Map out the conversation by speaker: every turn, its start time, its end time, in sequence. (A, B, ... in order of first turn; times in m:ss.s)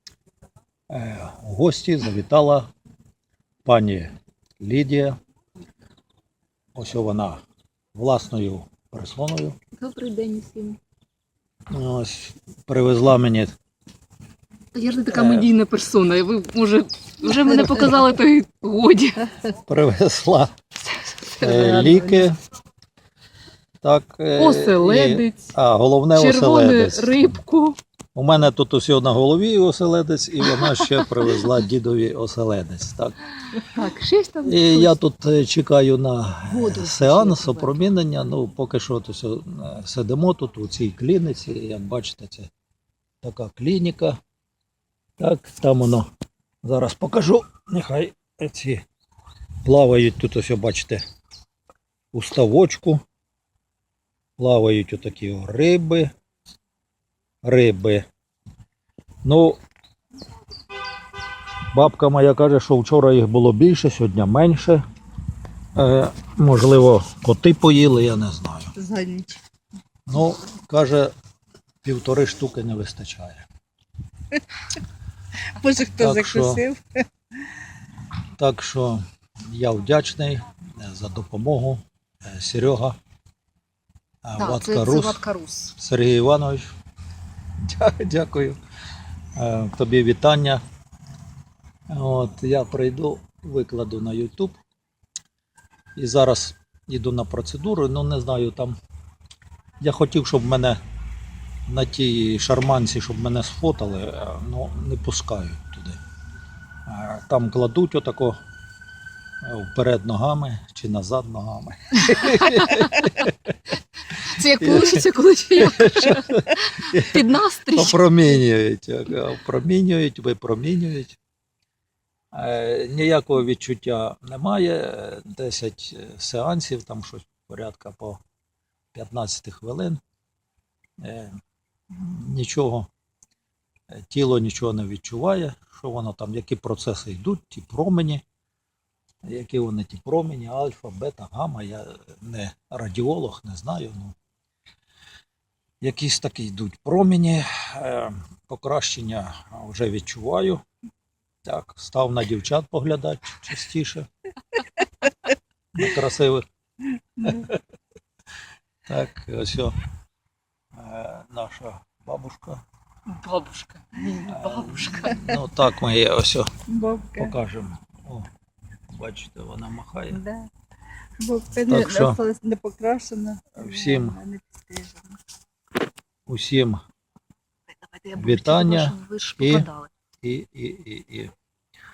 0:00.9-0:02.7 A
0:03.6-0:05.2 A
0:06.8-0:07.4 A
0:08.0-0:09.6 A
0:09.8-0:10.8 B
0:11.7-0:13.5 A
0:14.7-0:19.3 B
0:15.1-0:15.5 A
0:19.5-0:20.6 A
0:21.0-0:21.8 B
0:21.4-0:22.4 A
0:21.6-0:22.3 C
0:23.8-0:27.4 A
0:24.4-0:25.5 B
0:26.1-0:27.8 B
0:28.2-0:33.6 A
0:30.5-0:31.4 B
0:33.6-0:34.9 B
0:34.4-0:42.5 A
0:36.5-0:37.8 B
0:43.2-0:44.2 A
0:45.2-0:46.1 A
0:46.6-0:48.8 A
0:49.6-0:51.0 A
0:52.1-0:53.0 A
0:54.4-0:56.1 A
0:57.4-0:58.1 A
0:59.2-0:59.6 A
1:01.7-1:04.8 A
1:05.8-1:08.7 A
1:08.8-1:09.4 C
1:10.1-1:11.1 A
1:11.8-1:13.5 A
1:15.6-1:17.0 C
1:15.9-1:16.6 A
1:18.4-1:23.0 A
1:24.2-1:26.7 A
1:24.4-1:25.7 B
1:27.6-1:28.6 A
1:29.4-1:30.6 A
1:31.9-1:34.6 A
1:36.0-1:38.8 A
1:39.8-1:40.8 A
1:41.7-1:46.0 A
1:46.9-1:48.4 A
1:49.4-2:01.2 A
1:52.1-1:53.2 B
1:54.2-1:58.0 B
2:02.3-2:08.2 A
2:08.9-2:10.0 A
2:11.0-2:11.4 A
2:11.9-2:12.9 A
2:13.9-2:18.2 A
2:19.2-2:24.2 A
2:25.8-2:30.6 A
2:31.4-2:34.1 A
2:35.8-2:36.4 A
2:37.3-2:37.6 A
2:38.9-2:39.8 A
2:40.7-2:42.6 A
2:43.1-2:45.2 B
2:44.2-2:46.5 A
2:46.7-2:47.4 C
2:47.2-2:48.3 A
2:49.0-2:50.2 A
2:50.1-2:50.5 C
2:51.2-2:55.2 C
2:51.7-2:52.2 A
2:53.6-2:54.2 A
2:56.3-2:56.8 A
2:57.8-2:59.9 B
2:58.1-2:59.7 A
3:00.2-3:01.3 A